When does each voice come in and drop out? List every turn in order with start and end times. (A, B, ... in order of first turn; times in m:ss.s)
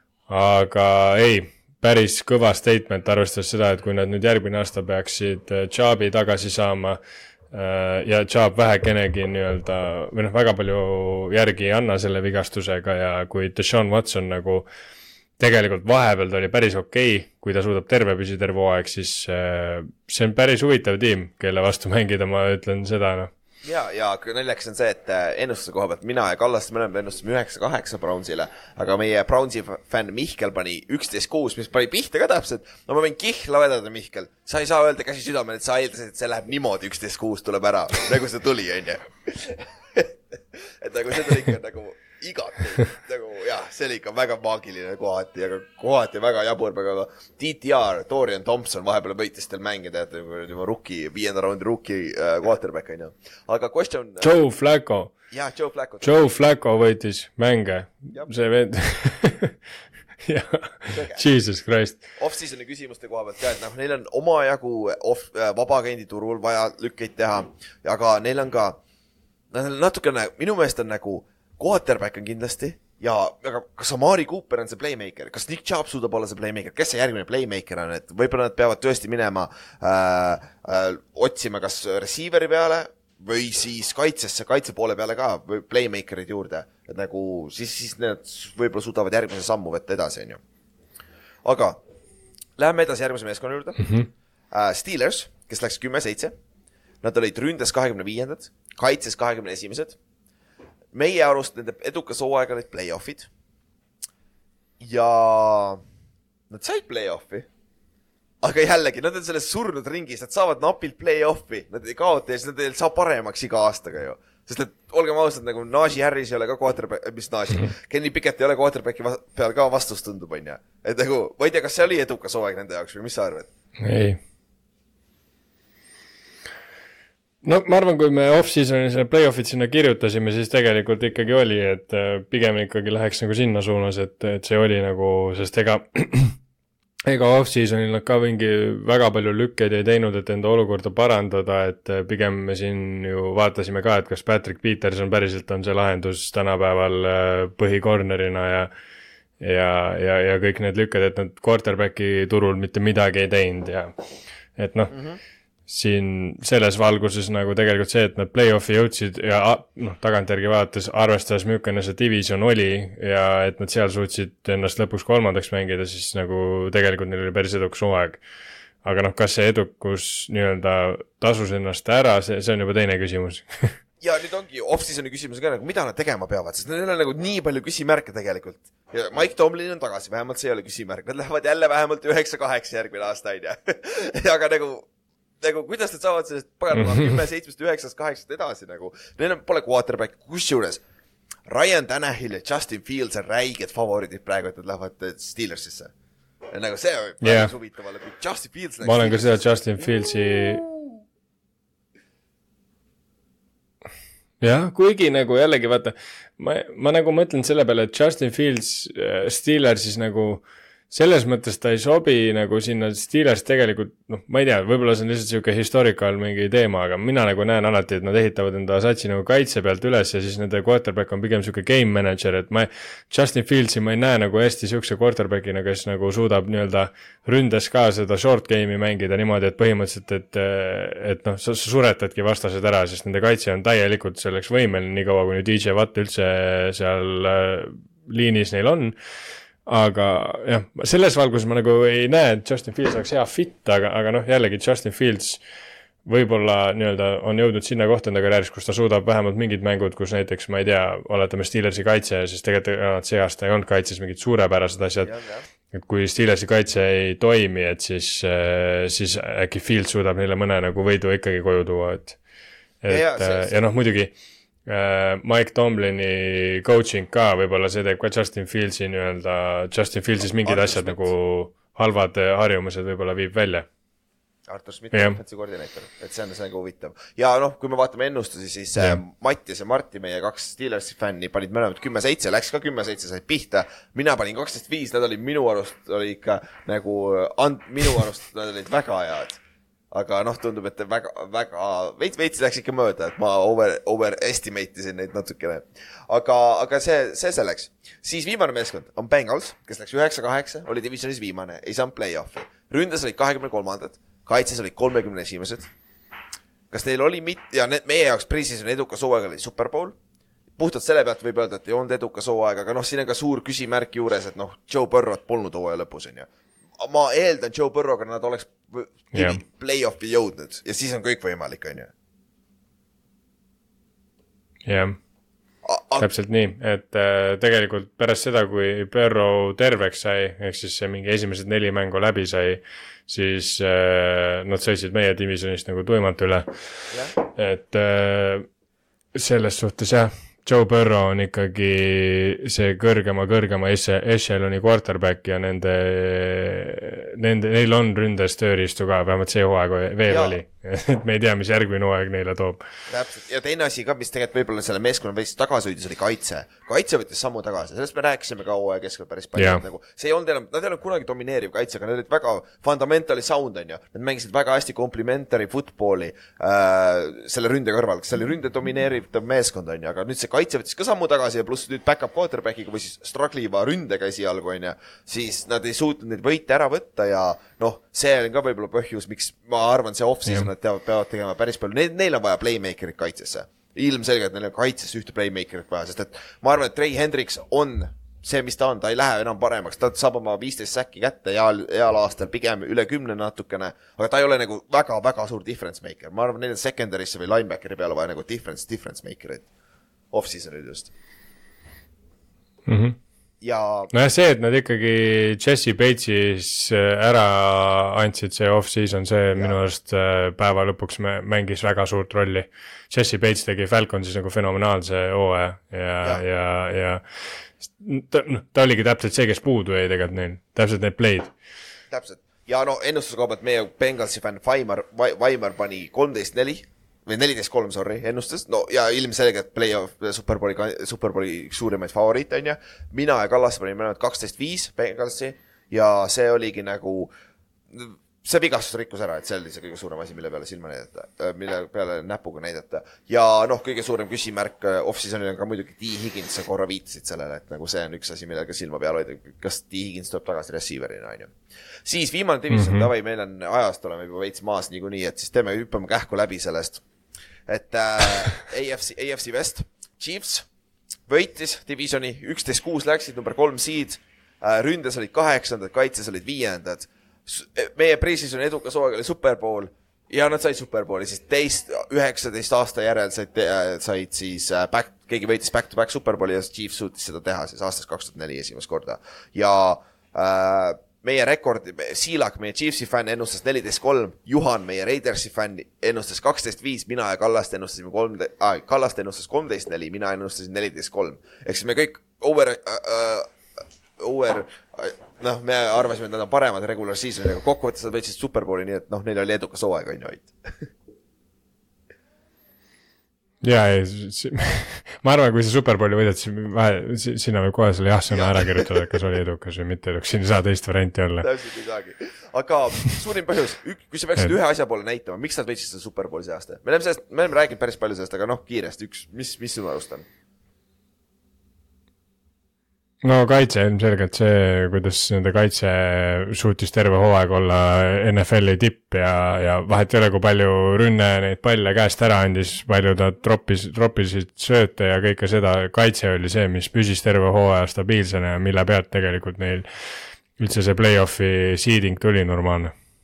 0:00.3-0:07.0 A
0:07.5-0:14.7 A
0:15.4-0:23.3 A
0:23.6-0:54.3 B
0:54.2-0:55.1 A
0:55.3-0:56.2 B
0:56.0-0:59.6 A
1:00.2-1:02.0 A
1:00.9-1:01.2 B
1:02.2-1:08.8 B
1:09.5-1:30.4 B
1:31.4-1:31.8 B
1:32.6-1:33.9 B
1:34.5-1:36.3 B
1:37.0-1:40.0 B
1:40.9-1:43.3 B
1:44.8-1:45.8 B
1:46.5-1:47.5 B
1:48.4-2:03.5 B
2:03.8-2:04.2 A
2:07.4-2:16.4 A
2:17.0-2:28.7 A
2:29.4-2:34.0 A
2:34.6-2:35.0 A
2:34.9-2:35.2 B
2:35.7-2:48.2 A
2:48.8-2:53.7 A
2:54.0-3:04.9 B
3:05.4-3:10.8 B
3:06.7-3:07.1 A
3:11.5-3:15.9 B
3:16.5-3:19.5 B
3:17.2-3:17.5 A
3:18.8-3:20.6 A
3:24.4-3:59.0 A
3:59.6-4:05.4 A
4:06.0-4:15.1 A
4:15.0-4:15.4 B
4:15.7-4:22.2 A
4:22.8-4:24.1 A
4:22.9-4:23.6 B
4:24.6-4:33.7 A
4:30.4-4:31.1 B
4:34.5-4:49.4 B
4:34.9-4:35.2 A
4:49.9-5:05.7 B
5:06.7-5:10.0 B
5:10.6-5:21.9 B
5:19.1-5:19.4 A
5:24.6-5:25.0 A
5:25.6-5:26.1 B
5:26.0-5:36.5 A
5:36.9-5:37.2 B
5:37.2-5:38.5 A
5:39.1-5:52.6 A
5:50.1-5:50.4 B
5:52.9-6:39.5 B
5:59.4-5:59.6 A
6:40.1-6:40.9 B
6:42.6-6:43.0 A
6:43.4-6:43.9 B
6:43.9-6:57.0 A
6:57.6-7:01.3 A
7:01.9-7:17.1 B
7:17.7-7:31.3 B
7:31.8-7:36.8 B
7:32.5-7:32.9 A
7:37.5-7:40.5 B
7:41.1-8:13.3 B
8:14.0-8:20.7 B
8:23.4-8:31.3 A
8:28.1-8:29.0 B
8:31.2-8:40.0 B
8:43.0-8:59.7 A
9:00.4-9:02.7 A